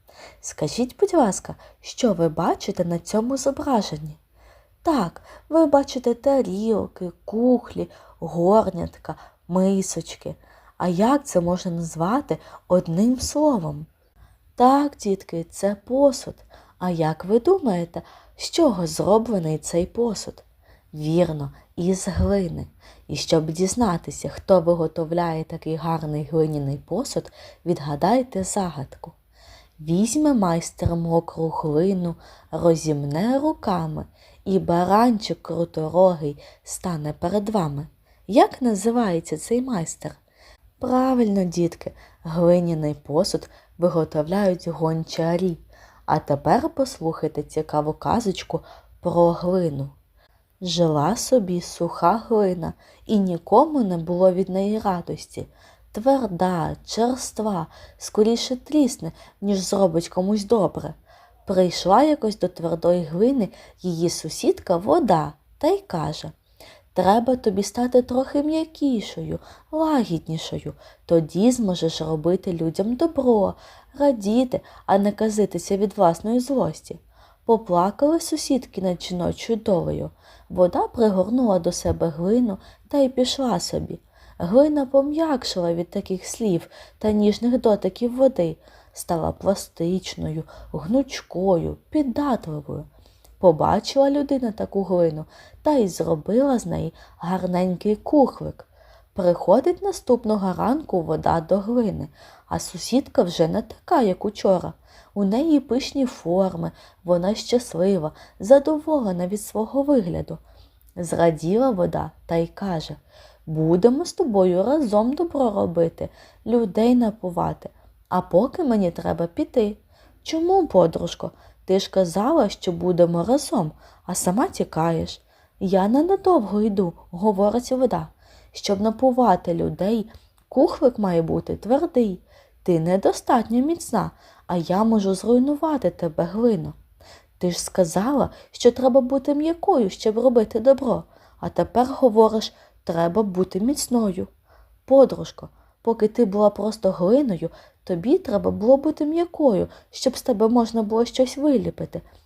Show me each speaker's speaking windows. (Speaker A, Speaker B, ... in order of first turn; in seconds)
Speaker A: 0.4-4.2, 4.8-13.9, 14.6-29.1, 29.8-40.2, 40.8-49.9, 50.6-66.3, 66.9-92.9, 93.4-110.4, 111.0-136.8, 137.4-144.3, 144.9-152.0